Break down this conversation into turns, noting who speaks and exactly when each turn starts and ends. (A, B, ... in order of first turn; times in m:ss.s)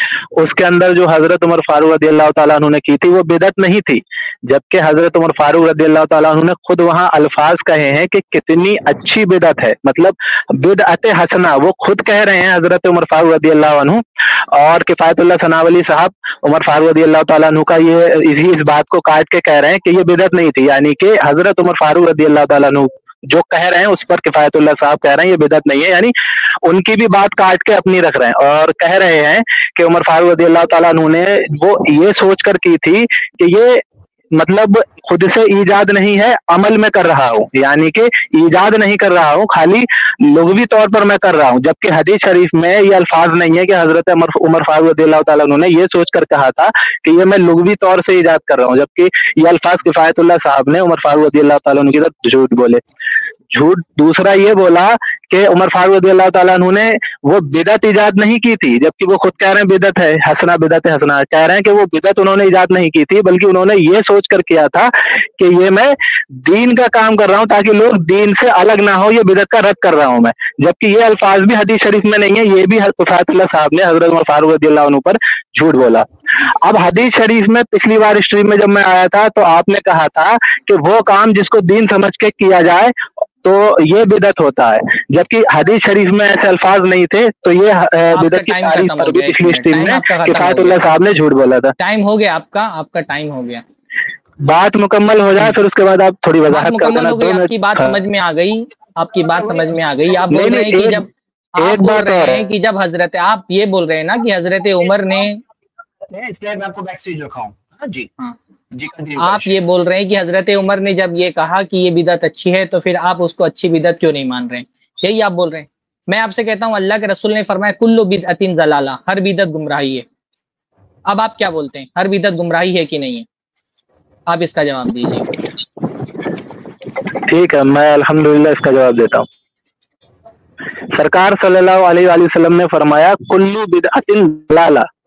0:00.3-0:52.8 A
0:53.5-1:31.7 A
1:28.1-1:30.8 B
1:31.8-1:33.6 B
1:34.4-1:38.0 A
1:36.5-1:45.4 B
1:39.3-1:39.8 C
1:40.3-1:41.0 A
1:41.6-1:42.4 A
1:44.7-1:45.3 C
1:46.0-1:48.1 C
1:48.7-1:49.5 C
1:49.2-2:00.0 B
2:01.1-2:03.2 B
2:04.3-2:05.3 B
2:07.1-2:09.3 A
2:10.9-2:14.9 A